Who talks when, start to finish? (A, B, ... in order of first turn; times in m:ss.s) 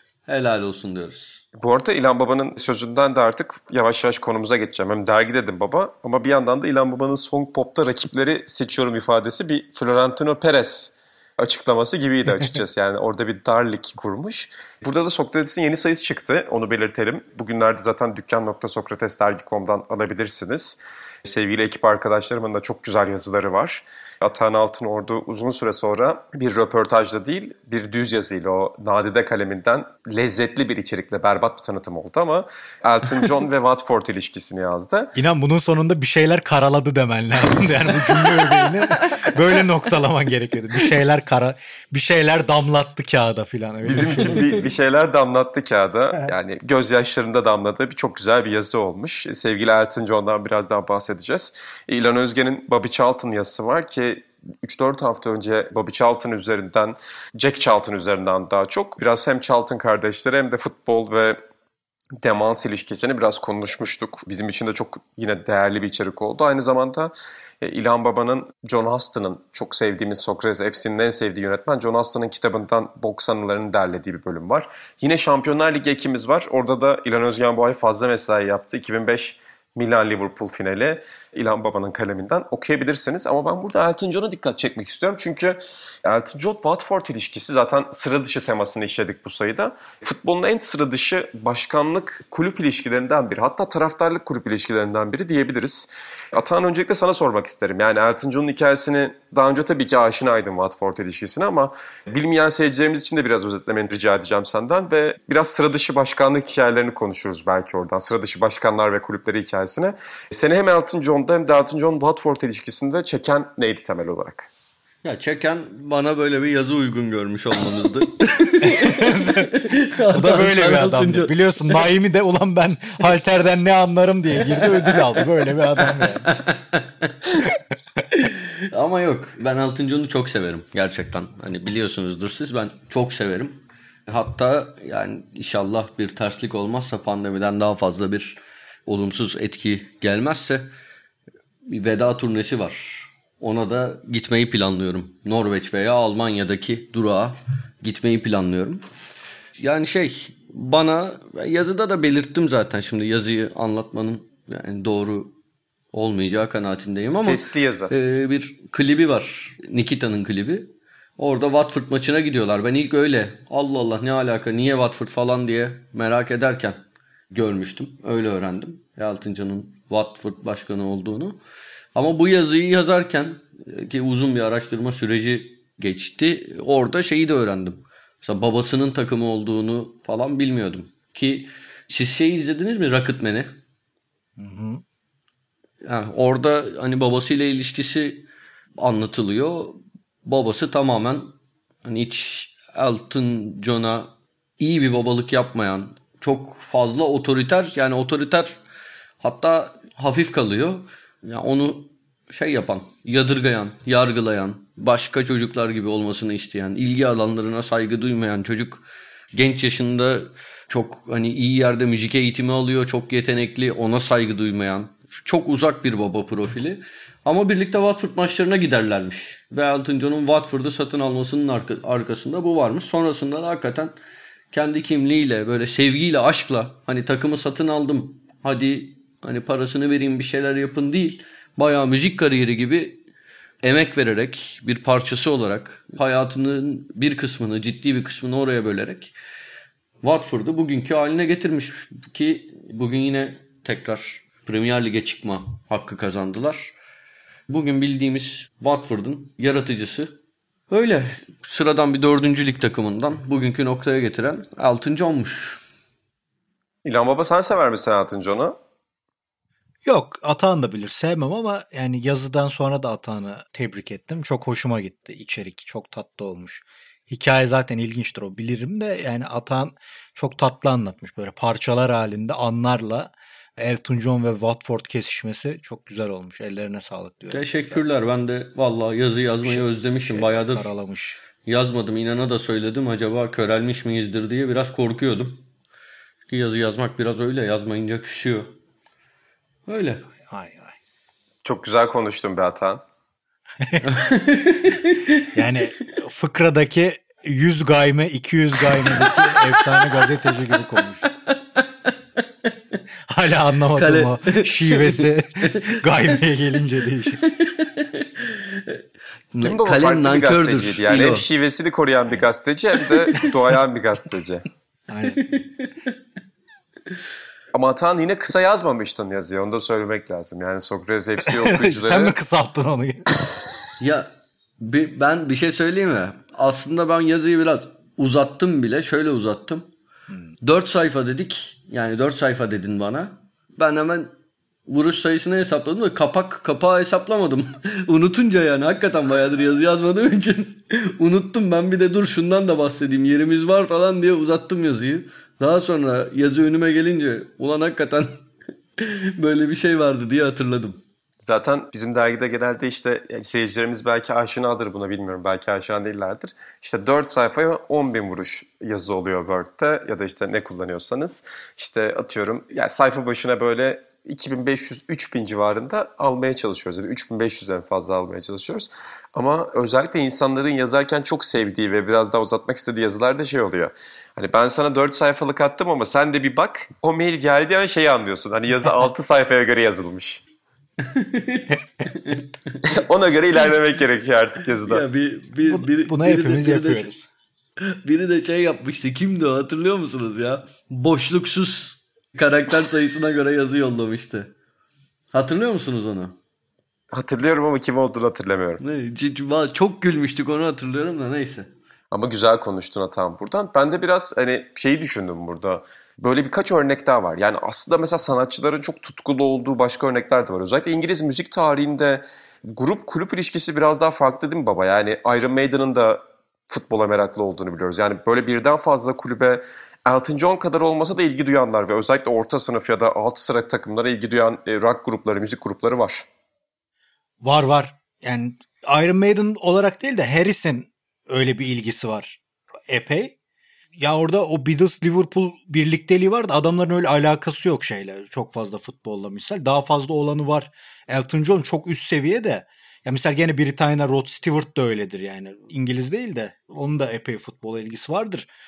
0:00.3-0:01.4 A
0:01.6-0:35.1 B
0:35.2-0:44.6 C
0:43.8-1:01.4 B
0:44.2-0:44.4 A
1:02.2-1:54.5 B
1:55.0-2:01.8 A
1:58.6-2:06.4 C
2:04.5-2:05.3 A
2:05.8-2:07.2 A
2:08.1-2:20.7 A
2:21.7-2:28.8 A
2:29.6-2:35.4 A
2:35.9-2:46.8 A
2:37.1-2:37.9 B
2:47.3-2:51.4 A
2:52.0-3:03.5 A
3:04.4-3:04.8 C
3:05.8-3:08.3 A
3:08.8-3:18.6 A
3:19.2-3:43.9 A
3:44.5-3:53.0 A
3:53.6-3:59.1 A
4:00.0-4:06.8 A
4:07.5-4:10.1 A
4:10.7-4:15.6 A
4:16.8-4:18.6 B
4:19.8-4:37.8 C
4:37.3-4:40.7 A
4:39.4-4:41.2 C
4:41.4-4:45.4 A
4:46.3-4:48.5 A
4:49.7-4:50.0 A
4:50.3-4:50.8 C
4:51.4-4:52.8 B
4:53.6-4:54.0 C
4:53.8-4:55.3 A
4:55.4-5:01.0 C
4:58.8-5:00.0 A
5:01.0-5:01.9 A
5:03.1-5:07.2 C
5:03.8-5:05.8 A
5:07.2-5:11.2 A
5:09.4-5:14.5 B
5:12.9-5:13.3 A
5:14.9-5:15.3 C
5:15.3-5:15.9 A
5:17.5-5:22.1 B
5:21.2-5:23.1 C
5:23.8-5:24.1 A
5:24.6-5:29.6 A
5:30.4-5:34.1 A
5:34.7-5:48.1 A
5:48.8-5:50.8 A
5:51.2-6:20.2 B
6:20.8-6:22.6 A
6:22.6-6:24.8 B
6:24.6-6:26.9 A
6:25.4-6:27.0 C
6:27.6-6:34.3 A
6:35.1-6:36.1 A
6:36.9-6:38.6 B
6:38.6-6:41.5 A
6:41.9-7:06.1 B
7:07.2-7:13.2 C
7:13.8-7:28.3 C